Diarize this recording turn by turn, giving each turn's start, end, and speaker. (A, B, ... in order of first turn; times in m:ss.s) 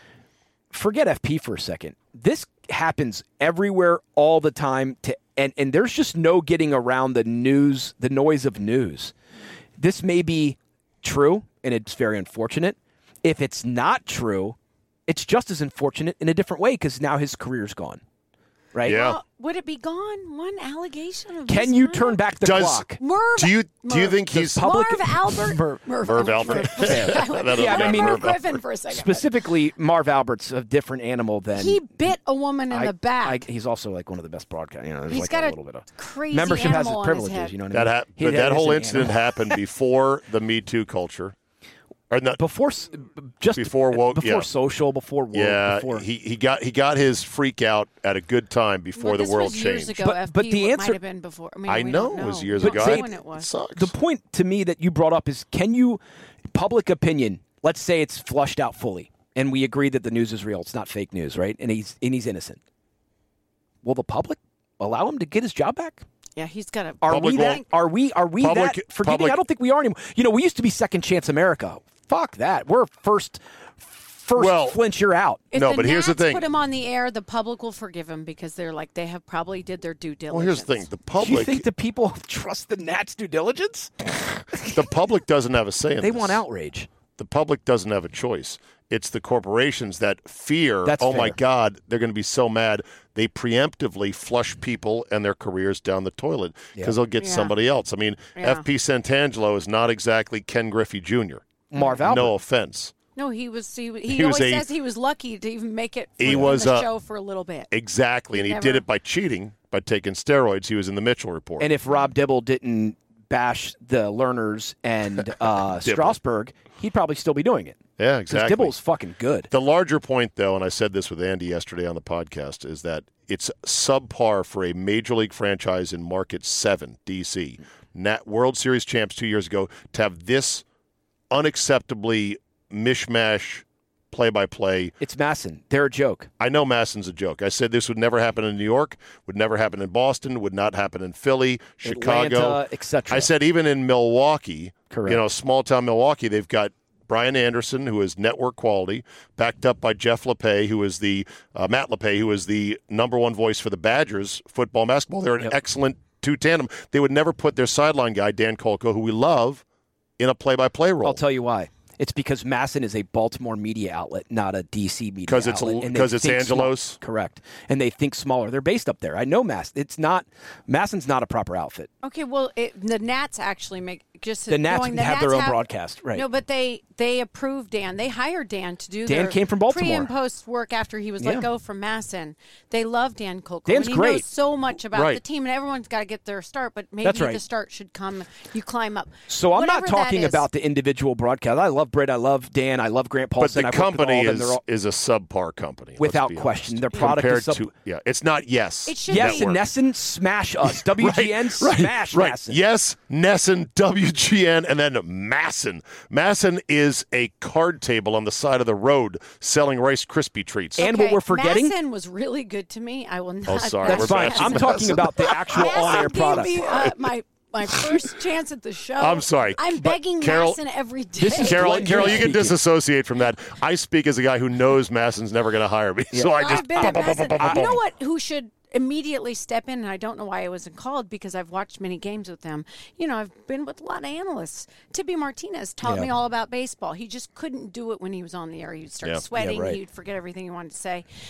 0:00.7-0:09.1 A
0:09.8-0:18.0 A
0:18.7-0:19.1 A
0:18.8-0:19.2 B
0:18.9-0:22.2 C
0:21.5-0:23.0 A
0:22.4-0:22.9 B
0:23.0-0:29.3 C
0:23.4-0:24.7 B
0:24.3-0:25.8 A
0:26.0-0:28.4 B
0:26.4-0:28.3 A
0:28.9-0:31.8 A
0:31.6-0:33.5 C
0:32.7-0:39.6 A
0:35.1-0:37.5 C
0:37.7-0:41.4 B
0:42.1-0:42.4 B
0:42.4-0:46.1 A
0:43.6-0:44.5 B
0:45.3-0:50.0 B
0:49.0-0:53.5 C
0:50.0-0:51.0 A
0:51.7-0:53.9 B
0:52.6-0:53.1 A
0:53.8-0:56.0 A
0:56.5-1:02.6 A
1:03.8-1:06.0 A
1:06.4-1:07.7 C
1:07.0-1:15.4 A
1:07.1-1:07.6 B
1:08.4-1:09.4 B
1:14.4-1:14.8 B
1:15.5-1:20.9 C
1:15.5-1:16.4 B
1:20.3-1:21.7 B
1:21.2-1:23.9 A
1:24.6-1:26.4 B
1:26.0-1:26.9 A
1:27.2-1:42.9 B
1:30.8-1:31.4 A
1:37.2-1:37.5 C
1:38.4-1:38.6 C
1:41.7-1:42.3 A
1:43.2-1:47.7 C
1:44.1-1:44.6 B
1:46.2-1:46.9 B
1:46.3-1:46.6 A
1:47.7-1:51.7 B
1:48.4-1:48.8 C
1:51.6-1:59.5 A
1:55.8-1:56.2 B
1:58.0-1:58.8 B
1:59.5-2:10.6 B
2:11.3-2:14.9 B
2:15.0-2:16.3 A
2:16.4-2:39.6 B
2:21.8-2:23.3 A
2:24.9-2:25.2 A
2:40.2-2:41.2 B
2:41.0-2:51.9 A
2:45.3-2:47.0 B
2:52.0-2:55.6 C
2:54.5-2:56.2 A
2:56.1-3:10.5 C
2:59.1-3:00.1 A
3:01.2-3:01.5 A
3:03.7-3:04.2 A
3:04.9-3:05.2 B
3:07.0-3:07.4 A
3:09.3-3:14.6 A
3:13.4-3:19.6 B
3:16.0-3:17.7 A
3:18.9-3:19.5 C
3:19.1-3:22.6 A
3:20.7-3:30.9 B
3:30.8-3:31.7 A
3:30.8-3:42.2 C
3:33.5-3:36.0 B
3:33.8-3:36.9 A
3:39.0-3:40.6 B
3:41.2-3:42.6 A
3:41.4-3:47.8 B
3:46.1-3:47.7 A
3:46.4-4:01.1 C
3:55.8-3:56.1 A
3:59.3-3:59.8 A